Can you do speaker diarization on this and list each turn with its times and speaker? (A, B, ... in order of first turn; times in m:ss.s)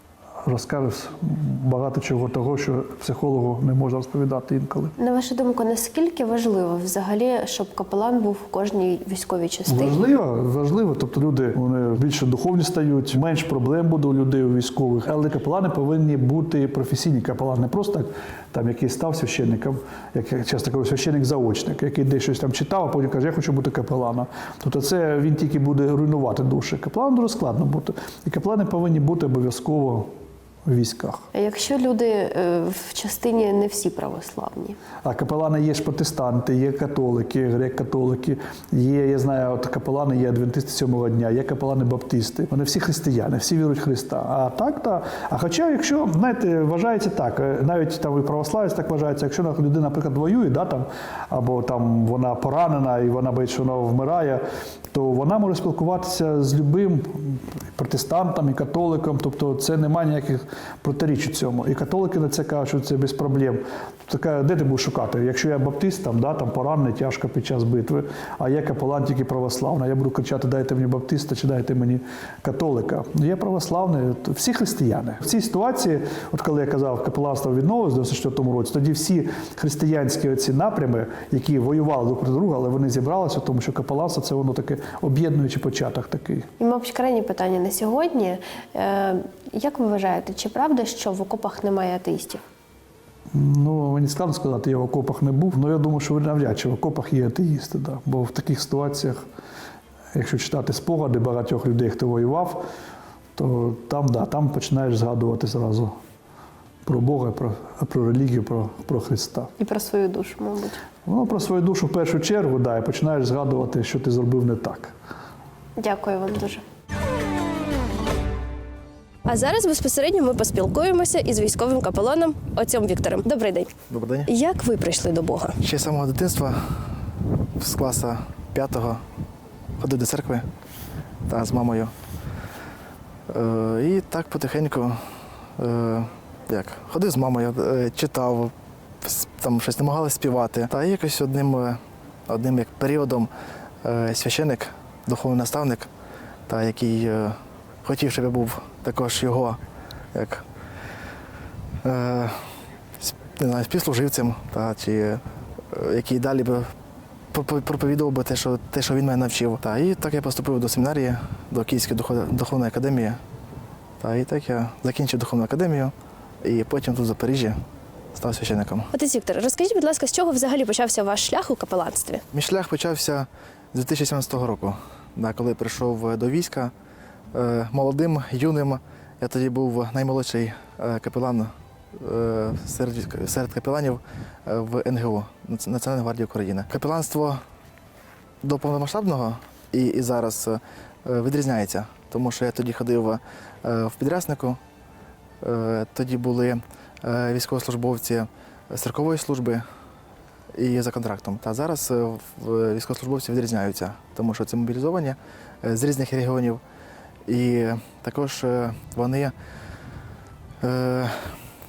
0:00.4-0:05.0 A
0:05.0-0:10.0 B
0:09.7-0:30.1 A
0:30.7-0:31.2 A
0:31.3-0:34.8 B
0:35.0-1:26.5 A
1:26.6-1:32.4 B
1:33.3-1:39.2 A
1:40.1-1:42.6 A
1:43.4-1:45.9 A
1:46.9-1:49.5 A
1:49.6-1:50.8 B
1:51.0-1:54.9 A
1:55.8-1:56.6 B
1:59.3-2:03.7 B
2:03.9-2:04.3 C
2:04.3-2:05.6 B
2:05.6-2:06.9 C
2:07.6-2:09.0 C
2:09.8-2:10.4 C
2:11.3-2:11.9 C
2:13.3-2:15.0 C
2:15.6-2:23.3 C
2:23.8-2:25.9 C
2:26.5-2:29.6 C
2:30.1-2:30.4 C
2:31.8-2:32.5 C
2:33.0-2:36.7 C
2:37.3-2:43.2 C
2:44.0-2:47.6 C
2:48.2-2:48.9 C
2:48.9-2:52.2 B
2:52.3-2:56.7 C
2:57.3-3:07.4 C
3:08.4-3:14.6 C
3:15.4-3:19.6 C
3:20.6-3:26.6 C
3:27.3-3:29.3 C
3:30.6-3:31.4 C